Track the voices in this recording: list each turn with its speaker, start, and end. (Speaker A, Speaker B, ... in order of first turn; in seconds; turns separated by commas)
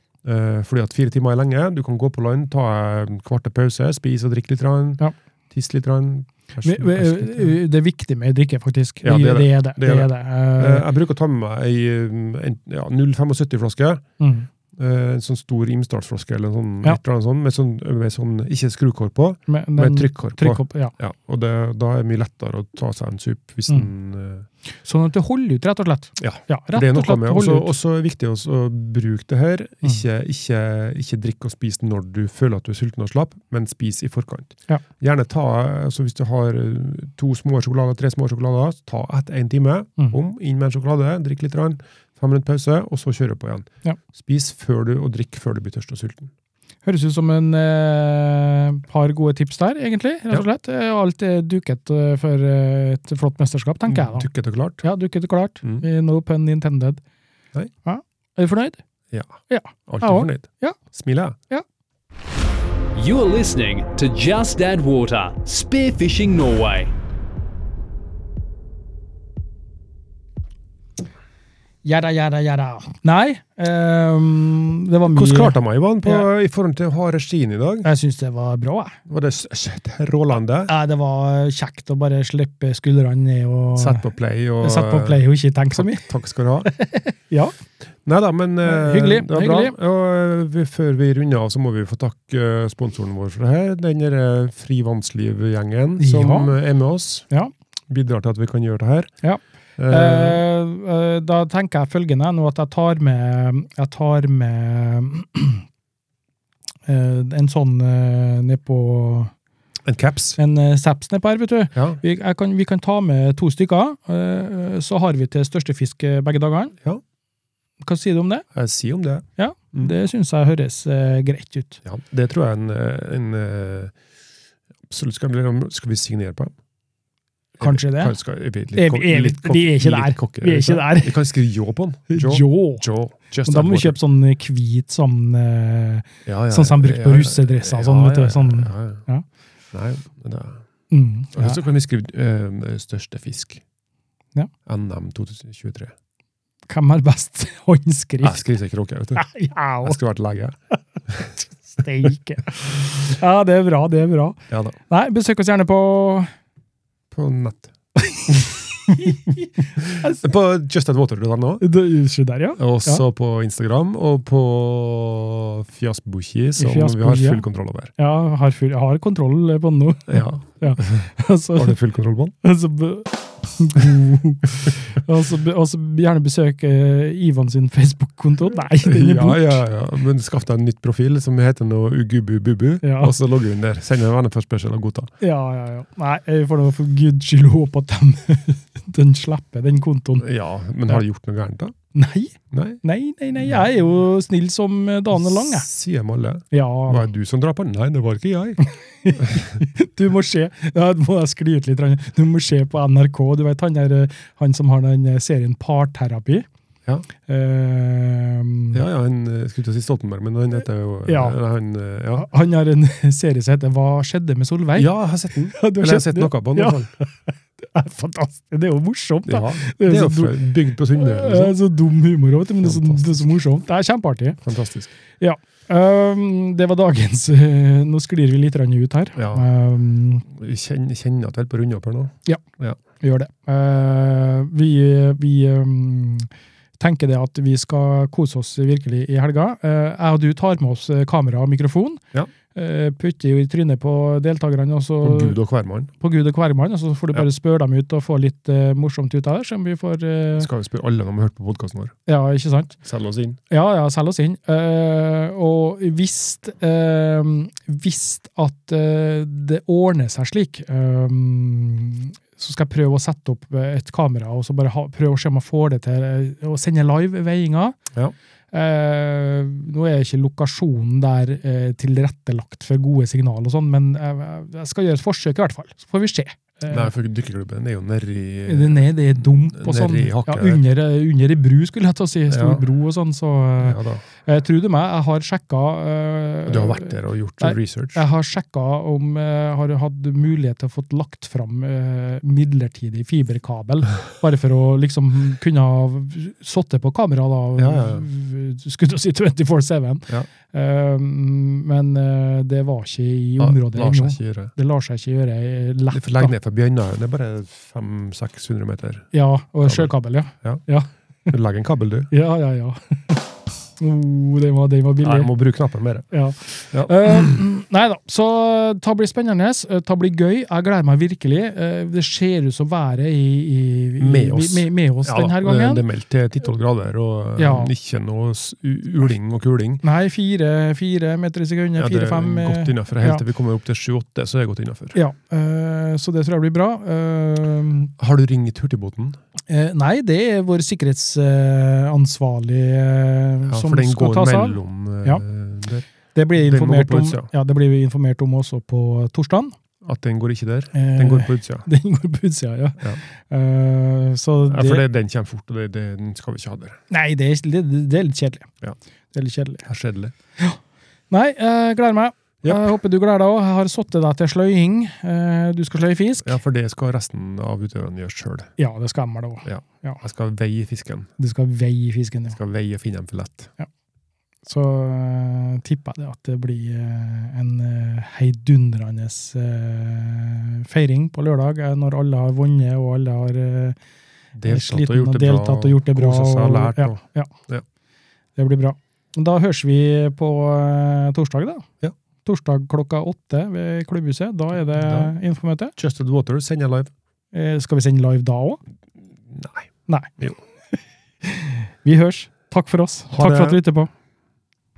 Speaker A: 0.2-7.5, Speaker B: 6.6-10.9, Speaker A: 9.0-14.0, Speaker B: 14.2-14.5, Speaker A: 14.7-24.4, Speaker B: 19.5-20.9, Speaker B: 24.8-27.7, Speaker A: 26.2-46.3, Speaker B: 46.8-54.3, Speaker A: 53.9-54.8, Speaker B: 54.8-57.0, Speaker B: 57.8-58.8, Speaker A: 59.1-61.4, Speaker B: 59.5-60.8, Speaker C: 62.9-66.9, Speaker B: 71.8-76.2, Speaker A: 75.1-77.9, Speaker B: 77.8-79.0, Speaker A: 79.1-80.7, Speaker B: 80.7-84.0, Speaker A: 83.8-86.7, Speaker B: 84.6-86.0, Speaker B: 86.6-87.5, Speaker A: 88.0-97.3, Speaker B: 88.6-89.7, Speaker B: 96.0-96.5, Speaker A: 97.9-99.1, Speaker B: 99.2-105.6, Speaker A: 99.8-100.4, Speaker B: 106.9-109.3, Speaker A: 109.8-110.4, Speaker B: 110.4-116.7, Speaker A: 111.7-112.0, Speaker B: 117.8-118.5, Speaker A: 118.5-119.9, Speaker B: 119.4-121.8, Speaker A: 121.8-123.9, Speaker A: 124.9-126.5, Speaker A: 127.6-134.0, Speaker B: 127.6-128.2, Speaker B: 128.7-131.2, Speaker B: 132.1-132.8, Speaker B: 133.4-139.2, Speaker A: 136.2-139.1, Speaker A: 139.7-140.6, Speaker B: 140.9-141.6, Speaker A: 141.3-143.6, Speaker A: 144.7-145.9, Speaker B: 146.7-148.4, Speaker A: 148.2-149.2, Speaker B: 149.2-150.0, Speaker A: 149.8-150.6, Speaker B: 151.7-154.4, Speaker A: 154.5-154.8, Speaker B: 154.9-156.3, Speaker A: 157.1-157.7, Speaker B: 158.0-160.2, Speaker A: 158.3-158.5, Speaker A: 159.8-161.7, Speaker B: 161.6-163.0, Speaker A: 162.6-167.9, Speaker B: 166.6-171.8, Speaker A: 170.1-172.3, Speaker B: 172.4-179.6, Speaker A: 178.8-185.1, Speaker B: 182.8-183.1, Speaker B: 185.2-190.3, Speaker A: 190.2-191.7, Speaker B: 191.9-195.7, Speaker A: 192.5-192.8, Speaker A: 195.2-198.6, Speaker B: 196.5-197.1, Speaker B: 198.6-206.4, Speaker A: 199.2-199.4, Speaker B: 207.2-208.8, Speaker A: 208.7-212.3, Speaker B: 211.1-211.4, Speaker B: 212.2-214.9, Speaker A: 214.8-216.9, Speaker B: 215.5-224.4, Speaker A: 219.2-221.5, Speaker A: 222.6-223.2, Speaker A: 224.4-224.9, Speaker B: 225.2-230.2, Speaker A: 229.2-229.5, Speaker A: 230.2-232.8, Speaker B: 233.0-245.4, Speaker A: 245.0-245.9, Speaker B: 246.0-250.5, Speaker A: 250.4-251.9, Speaker B: 252.1-252.8, Speaker A: 252.8-253.4, Speaker B: 253.5-267.8, Speaker B: 268.5-276.9, Speaker A: 276.7-280.6, Speaker B: 278.4-306.3, Speaker A: 282.3-282.6, Speaker A: 283.6-284.0, Speaker A: 286.4-288.0, Speaker A: 297.6-298.0, Speaker A: 303.4-304.5, Speaker A: 305.9-309.1, Speaker B: 309.1-311.3, Speaker A: 309.6-309.9, Speaker A: 311.3-312.1, Speaker B: 312.1-315.3, Speaker A: 315.0-316.1, Speaker B: 316.1-325.8, Speaker A: 316.7-317.4, Speaker A: 324.0-329.8, Speaker B: 327.4-327.7, Speaker B: 329.8-333.2, Speaker A: 331.8-334.9, Speaker B: 334.9-337.9, Speaker A: 338.0-339.2, Speaker B: 339.5-345.2, Speaker A: 343.5-345.9, Speaker B: 346.1-349.6, Speaker A: 346.4-347.3, Speaker A: 349.8-351.7, Speaker B: 350.7-354.8, Speaker A: 354.5-356.8, Speaker B: 356.9-358.5, Speaker B: 359.1-359.6, Speaker A: 359.6-360.1, Speaker B: 361.1-366.3, Speaker A: 362.4-362.7, Speaker A: 366.2-368.5, Speaker B: 368.6-370.0, Speaker A: 369.4-371.1, Speaker B: 371.2-372.4, Speaker A: 372.3-373.5, Speaker B: 374.4-383.8, Speaker A: 384.3-387.6, Speaker B: 384.5-387.3, Speaker B: 388.4-391.7, Speaker B: 392.2-395.7, Speaker A: 394.7-395.1, Speaker A: 395.8-396.9, Speaker B: 397.3-398.6, Speaker A: 399.3-400.4, Speaker B: 399.9-400.2, Speaker B: 401.2-403.9, Speaker A: 403.1-403.6